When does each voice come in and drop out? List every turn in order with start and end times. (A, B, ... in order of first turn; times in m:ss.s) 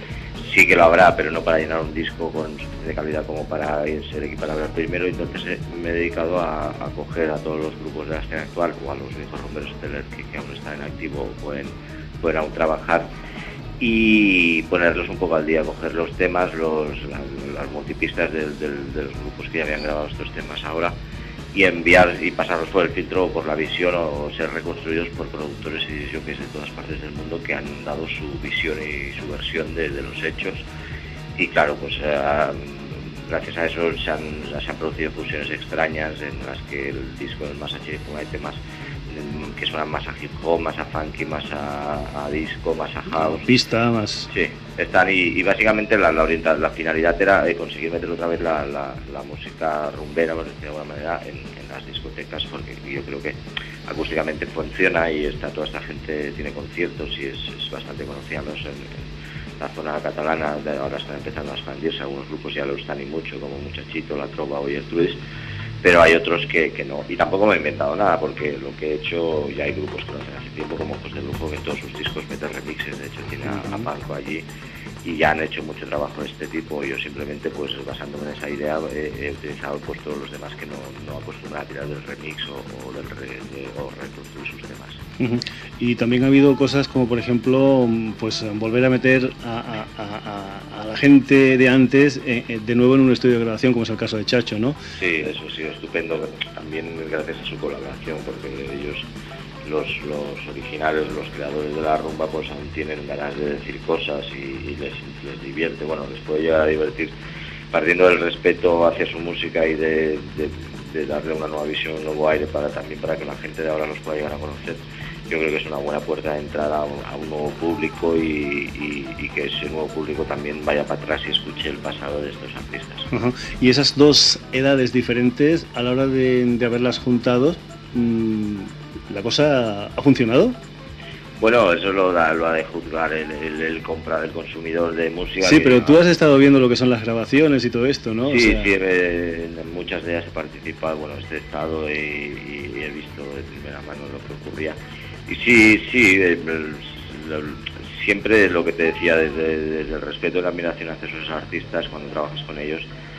0:00.5-0:13.1 A
0:13.8-0:21.0 A
0:21.5-0:30.6 A
0:31.4-0:43.5 A
0:43.1-0:44.3 B
0:44.3-0:53.4 A
0:53.9-0:59.1 A
0:59.6-1:05.2 A
1:05.8-1:14.4 A
1:13.5-1:13.8 B
1:15.0-1:25.0 A
1:25.2-1:34.8 B
1:35.0-1:39.0 A
1:39.7-1:47.2 A
1:47.7-2:03.1 A
2:03.1-2:10.6 B
2:11.4-2:16.0 A
2:15.4-2:18.7 B
2:18.3-2:32.8 A